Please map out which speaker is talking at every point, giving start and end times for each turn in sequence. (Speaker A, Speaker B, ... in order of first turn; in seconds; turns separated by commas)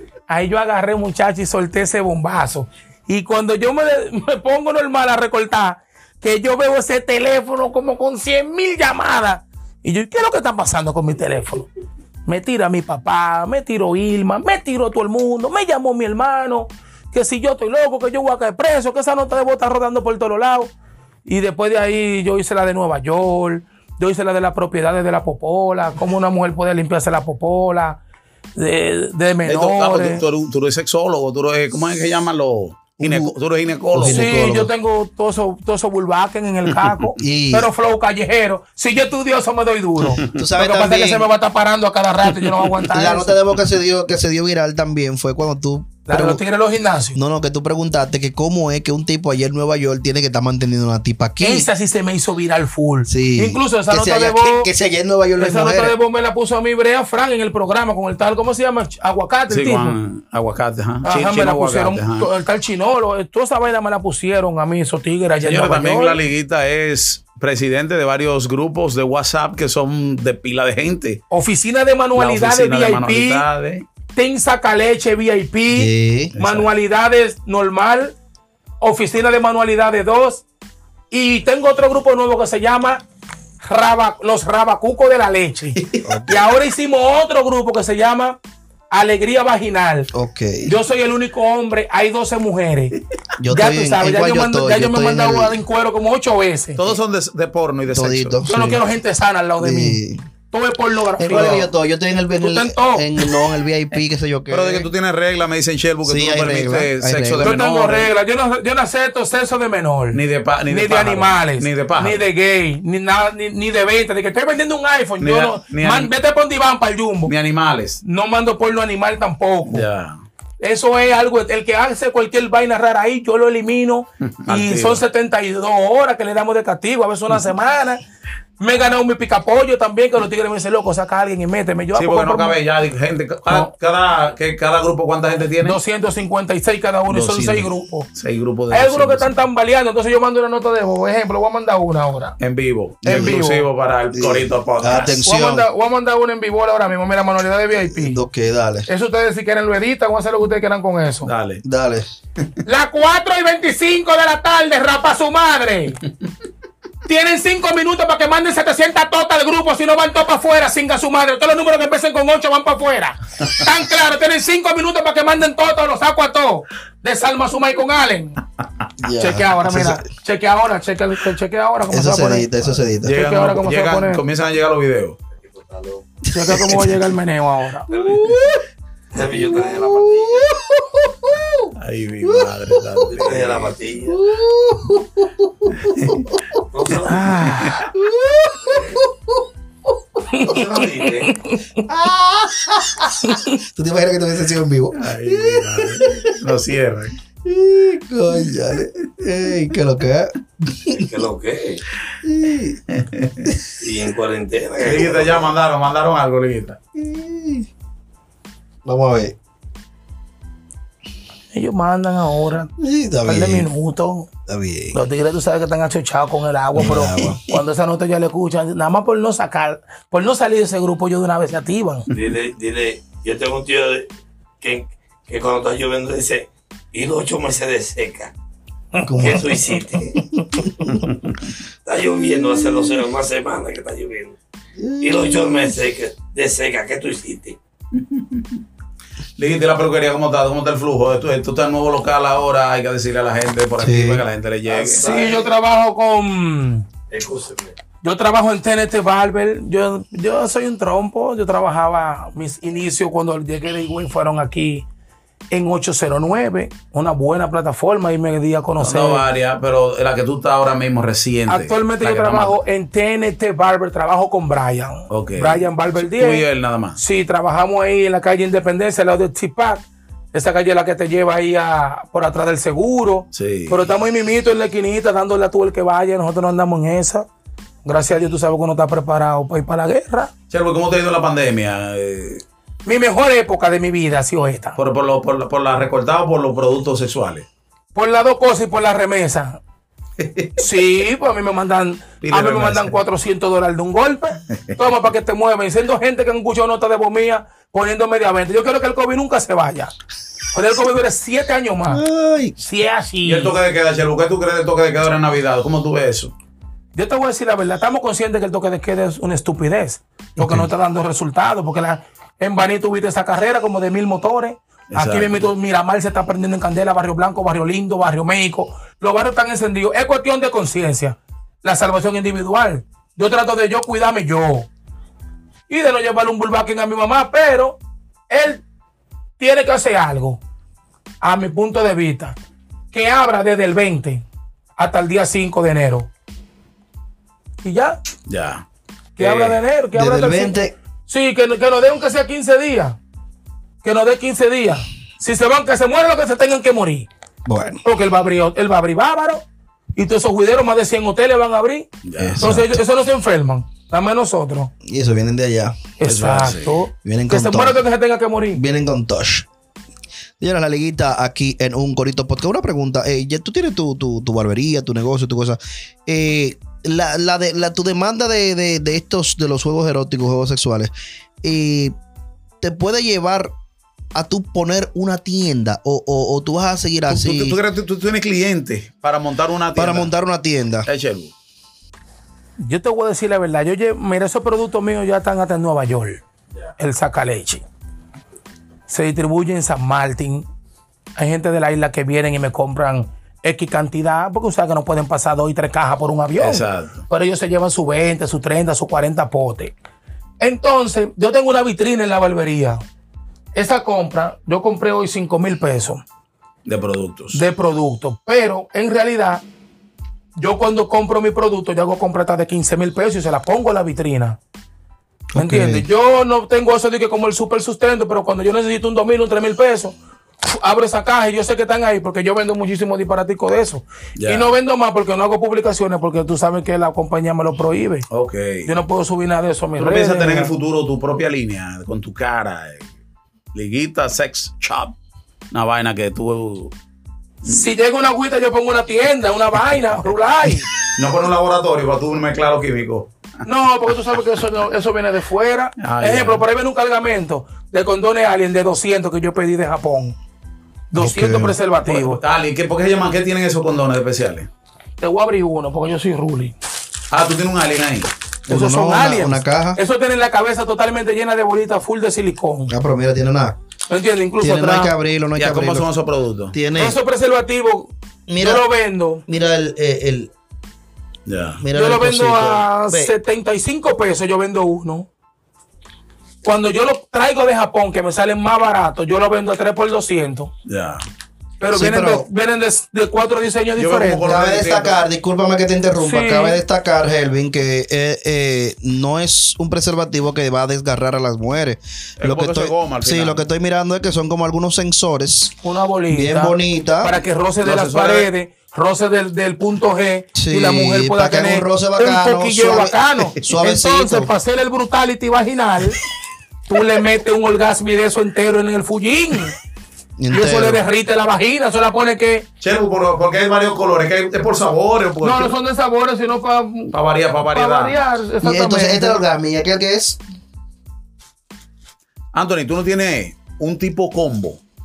Speaker A: 0.3-11.7, Speaker A: 12.2-20.7, Speaker A: 21.2-28.0, Speaker A: 28.6-30.2, Speaker B: 29.4-34.3, Speaker C: 33.0-33.3, Speaker C: 33.9-34.7, Speaker A: 34.0-43.4, Speaker C: 37.2-37.7, Speaker C: 40.3-41.3, Speaker C: 42.9-46.4, Speaker A: 46.1-47.2, Speaker C: 47.1-51.7, Speaker A: 51.4-54.7, Speaker C: 53.1-55.9, Speaker A: 55.4-60.0, Speaker B: 59.5-62.3, Speaker A: 61.0-66.2, Speaker B: 65.4-71.2, Speaker A: 71.3-73.5, Speaker B: 72.1-73.8, Speaker A: 74.1-78.2, Speaker C: 75.7-76.3, Speaker B: 76.4-76.7, Speaker A: 78.8-80.4, Speaker A: 81.1-83.0, Speaker A: 83.7-88.4, Speaker B: 85.8-86.0, Speaker C: 86.0-86.5, Speaker A: 88.9-90.1, Speaker C: 90.1-90.7, Speaker A: 90.6-92.9, Speaker C: 93.4-95.6, Speaker A: 93.5-96.8, Speaker B: 96.8-98.4, Speaker C: 97.9-98.8, Speaker A: 98.5-101.7, Speaker C: 99.6-100.2, Speaker C: 101.2-104.9, Speaker A: 102.4-103.3, Speaker B: 104.5-108.1, Speaker C: 106.0-107.5, Speaker A: 107.4-117.3, Speaker B: 110.1-112.2, Speaker B: 115.2-116.1, Speaker B: 117.3-118.0, Speaker A: 118.0-119.8, Speaker B: 119.7-120.2, Speaker A: 120.6-128.0, Speaker B: 124.4-125.0, Speaker A: 128.6-132.6, Speaker B: 131.9-135.8, Speaker A: 135.6-138.1, Speaker B: 137.1-139.3, Speaker A: 138.7-142.3, Speaker B: 142.4-145.2, Speaker C: 143.0-143.4, Speaker A: 143.0-143.7, Speaker C: 144.1-145.7, Speaker A: 145.2-148.2, Speaker C: 147.7-148.9, Speaker A: 148.9-151.3, Speaker B: 151.2-151.6, Speaker C: 151.6-152.1, Speaker A: 152.6-156.0, Speaker A: 157.1-168.4, Speaker C: 169.0-170.1, Speaker A: 169.2-172.5, Speaker C: 171.9-173.2, Speaker B: 173.0-175.2, Speaker A: 173.1-174.2, Speaker D: 175.3-176.0, Speaker C: 176.3-177.1, Speaker A: 176.3-177.9, Speaker D: 177.9-178.4, Speaker C: 177.9-178.6, Speaker D: 179.1-180.5, Speaker C: 179.2-181.7, Speaker B: 181.8-183.8, Speaker C: 182.2-183.1, Speaker D: 183.0-184.2, Speaker C: 184.1-186.6, Speaker B: 185.8-186.2, Speaker D: 186.7-187.3, Speaker B: 187.0-187.9, Speaker A: 187.2-187.8, Speaker C: 187.9-189.4, Speaker D: 188.6-189.0, Speaker A: 190.3-190.6, Speaker D: 190.4-191.3, Speaker A: 191.2-191.8, Speaker C: 191.9-196.3, Speaker A: 193.2-193.6, Speaker B: 195.0-197.2, Speaker C: 197.4-201.1, Speaker D: 201.0-201.8, Speaker C: 202.2-202.8, Speaker B: 202.9-203.5, Speaker D: 203.8-205.6, Speaker B: 204.8-206.8, Speaker C: 206.9-207.7, Speaker C: 208.8-209.3, Speaker A: 211.5-212.7, Speaker C: 212.8-213.7, Speaker A: 213.2-214.3, Speaker C: 214.5-215.0, Speaker A: 214.9-222.1, Speaker C: 216.8-217.4, Speaker D: 222.1-224.1, Speaker D: 224.6-228.3, Speaker C: 229.0-231.0, Speaker D: 229.2-230.2, Speaker B: 230.8-231.5, Speaker D: 231.8-234.4, Speaker C: 232.2-233.0, Speaker C: 234.8-235.8, Speaker D: 235.0-237.6, Speaker B: 237.9-238.6, Speaker B: 239.4-245.1, Speaker C: 243.8-244.2, Speaker D: 244.7-245.5, Speaker A: 244.9-246.8, Speaker D: 247.1-247.7, Speaker A: 248.0-254.8, Speaker A: 255.5-259.2, Speaker B: 258.8-262.6, Speaker A: 261.5-266.4, Speaker B: 265.1-267.0, Speaker A: 267.0-277.2, Speaker B: 273.3-273.9, Speaker A: 277.8-280.3, Speaker B: 280.5-282.4, Speaker A: 282.9-284.8, Speaker B: 284.8-287.4, Speaker A: 287.9-289.6, Speaker B: 290.2-290.6, Speaker A: 290.6-299.9, Speaker B: 292.2-293.0, Speaker A: 300.5-302.0, Speaker C: 301.9-302.6, Speaker A: 302.6-303.6, Speaker B: 303.2-306.3, Speaker A: 306.9-324.7, Speaker B: 314.9-315.4, Speaker A: 325.7-327.8, Speaker A: 328.3-328.6, Speaker A: 329.4-330.4, Speaker A: 331.2-332.3, Speaker A: 332.9-334.2, Speaker A: 334.8-336.1, Speaker A: 337.6-338.0, Speaker B: 338.3-338.6, Speaker A: 339.1-343.0, Speaker B: 339.2-339.6, Speaker C: 339.9-340.7, Speaker A: 343.8-347.1, Speaker C: 347.4-347.8, Speaker A: 347.8-349.4, Speaker A: 349.9-351.9, Speaker B: 352.0-352.5, Speaker C: 352.2-352.8, Speaker A: 352.4-354.7, Speaker C: 354.8-355.7, Speaker A: 356.0-358.6, Speaker B: 356.0-356.8, Speaker C: 357.0-357.8, Speaker C: 358.5-359.4, Speaker C: 360.4-370.9, Speaker C: 371.4-371.9, Speaker C: 372.6-373.5, Speaker C: 374.1-377.6, Speaker B: 377.1-380.1, Speaker C: 379.8-380.9, Speaker B: 380.9-381.3, Speaker A: 382.6-386.2, Speaker A: 386.8-387.6, Speaker A: 388.9-390.4, Speaker A: 391.2-399.7, Speaker B: 396.4-397.0, Speaker A: 400.4-402.8, Speaker A: 403.5-406.0, Speaker B: 406.6-407.4, Speaker A: 407.3-409.4, Speaker A: 410.4-414.4, Speaker C: 415.3-415.9, Speaker A: 415.4-428.1, Speaker B: 424.2-424.5, Speaker B: 428.1-428.7, Speaker A: 428.6-430.5, Speaker B: 429.8-432.9, Speaker B: 433.5-434.9, Speaker B: 435.5-436.7, Speaker A: 437.4-440.7, Speaker B: 440.9-443.1, Speaker A: 443.4-450.1, Speaker B: 445.8-446.4, Speaker A: 450.9-452.2, Speaker C: 450.9-451.6, Speaker B: 451.8-454.5, Speaker A: 455.0-456.5, Speaker B: 457.1-458.1, Speaker C: 458.5-459.8, Speaker A: 458.5-462.7, Speaker C: 462.7-463.5, Speaker A: 463.9-464.9, Speaker C: 464.4-465.9, Speaker B: 465.4-466.5, Speaker C: 466.5-467.0, Speaker A: 466.7-469.2, Speaker C: 468.3-468.6, Speaker C: 469.3-470.3, Speaker B: 471.3-471.6, Speaker C: 471.6-473.1, Speaker A: 471.7-475.1, Speaker A: 476.4-480.5, Speaker B: 480.7-481.0, Speaker A: 481.6-484.3, Speaker C: 481.7-482.3, Speaker B: 483.8-485.0, Speaker C: 484.2-495.6, Speaker A: 486.0-486.6, Speaker B: 492.2-493.4, Speaker A: 495.6-506.0, Speaker C: 496.1-497.1, Speaker B: 497.6-498.3, Speaker C: 500.4-504.3, Speaker A: 506.7-509.5, Speaker C: 510.2-510.8, Speaker A: 510.3-512.5, Speaker B: 512.6-515.5, Speaker A: 515.2-516.9, Speaker B: 516.9-518.0, Speaker A: 517.5-519.2, Speaker C: 518.4-520.2, Speaker B: 522.3-524.6